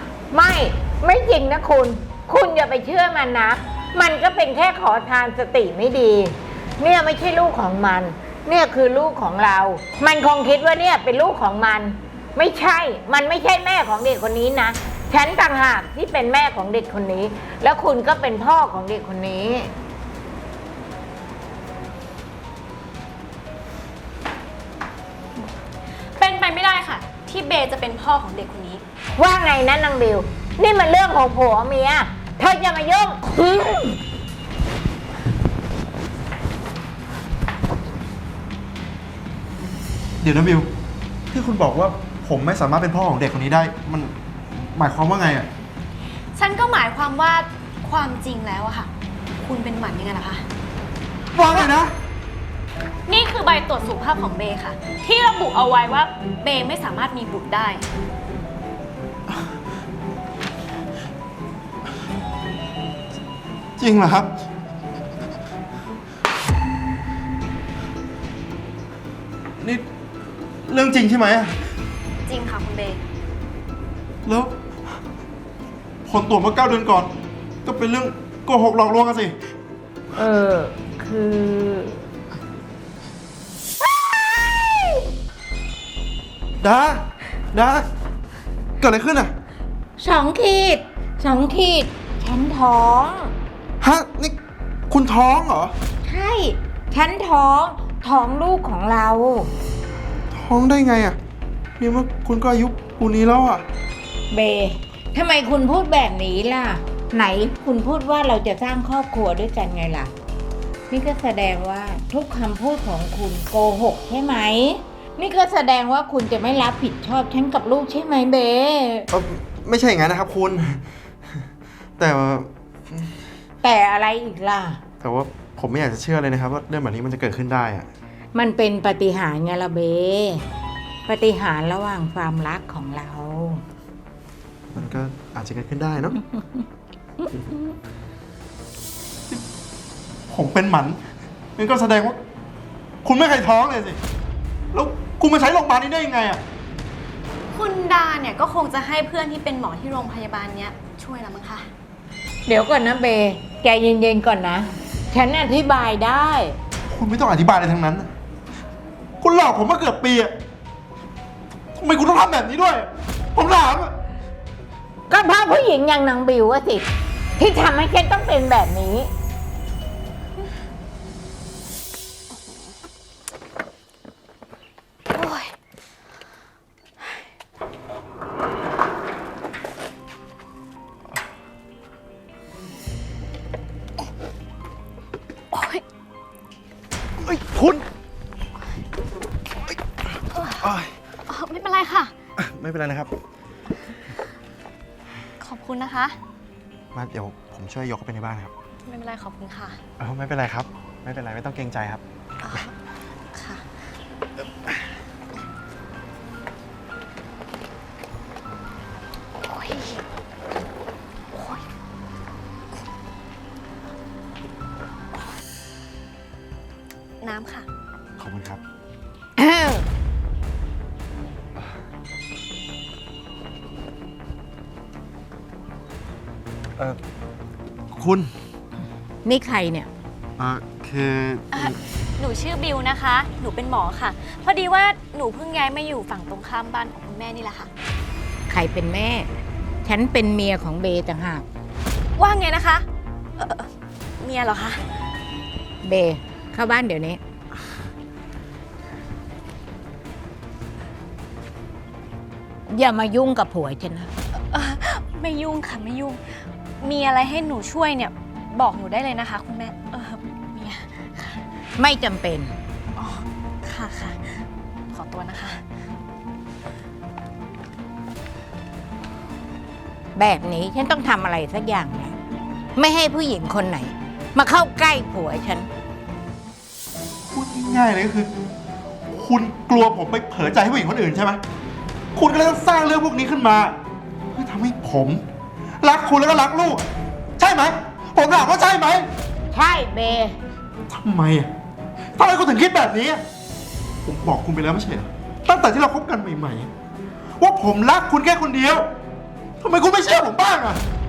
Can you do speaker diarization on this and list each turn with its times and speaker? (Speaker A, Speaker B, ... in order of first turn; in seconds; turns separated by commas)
Speaker A: 0.3-19.7, Speaker B: 26.2-28.8, Speaker A: 29.1-34.0, Speaker C: 40.2-40.7, Speaker C: 41.3-44.1, Speaker C: 44.7-45.5, Speaker B: 46.4-48.9, Speaker B: 49.4-50.4, Speaker C: 51.3-51.9, Speaker B: 53.1-57.8, Speaker C: 63.8-64.3, Speaker C: 69.6-69.8, Speaker C: 70.7-71.6, Speaker B: 72.2-73.0, Speaker C: 74.2-74.6, Speaker C: 76.0-79.3, Speaker A: 80.2-82.0, Speaker A: 83.9-85.0, Speaker C: 86.6-87.9, Speaker C: 88.8-89.3, Speaker A: 90.0-93.3, Speaker C: 93.8-94.4, Speaker C: 94.9-95.7, Speaker A: 96.0-99.5, Speaker C: 100.3-101.2, Speaker C: 101.8-103.6, Speaker A: 104.3-110.1, Speaker A: 110.9-119.1, Speaker C: 119.1-121.4, Speaker C: 122.0-123.1, Speaker A: 123.6-124.8, Speaker C: 125.0-127.9, Speaker A: 128.3-130.4, Speaker A: 131.1-133.6, Speaker C: 134.7-136.2, Speaker C: 140.3-141.0, Speaker C: 141.6-142.2, Speaker C: 143.0-144.0, Speaker C: 144.7-146.4, Speaker B: 147.5-151.7, Speaker A: 152.5-156.6, Speaker C: 156.9-158.1, Speaker C: 159.2-160.3, Speaker C: 161.7-163.9, Speaker A: 165.1-169.1, Speaker B: 175.1-175.5, Speaker B: 185.5-185.8, Speaker C: 187.2-187.8, Speaker C: 190.4-190.9, Speaker B: 191.3-192.1, Speaker C: 192.4-193.1, Speaker B: 195.4-196.2, Speaker C: 196.9-198.5, Speaker B: 198.8-199.8, Speaker C: 200.0-202.0, Speaker B: 202.4-202.7, Speaker B: 203.3-203.6, Speaker B: 209.4-210.0, Speaker B: 211.3-211.6, Speaker B: 217.2-217.7, Speaker C: 218.2-218.6, Speaker A: 219.4-219.9, Speaker C: 227.9-228.3, Speaker A: 229.2-229.9, Speaker C: 230.4-231.8, Speaker B: 231.5-237.7, Speaker A: 238.5-239.3, Speaker A: 239.8-241.4, Speaker B: 242.2-242.8, Speaker B: 243.4-243.7, Speaker B: 244.2-244.8, Speaker A: 245.8-247.2, Speaker A: 252.7-254.1, Speaker B: 254.5-256.2, Speaker B: 256.8-261.4, Speaker A: 261.8-262.5, Speaker B: 263.0-265.6, Speaker A: 270.1-272.1, Speaker A: 272.8-275.7, Speaker C: 277.3-278.3, Speaker C: 279.1-281.4, Speaker C: 282.1-283.8, Speaker C: 284.3-285.2, Speaker C: 285.8-286.9, Speaker C: 287.4-289.1, Speaker A: 289.5-290.4, Speaker C: 290.9-291.5, Speaker C: 292.1-293.2, Speaker C: 294.0-296.7, Speaker C: 297.4-298.9, Speaker C: 299.6-300.8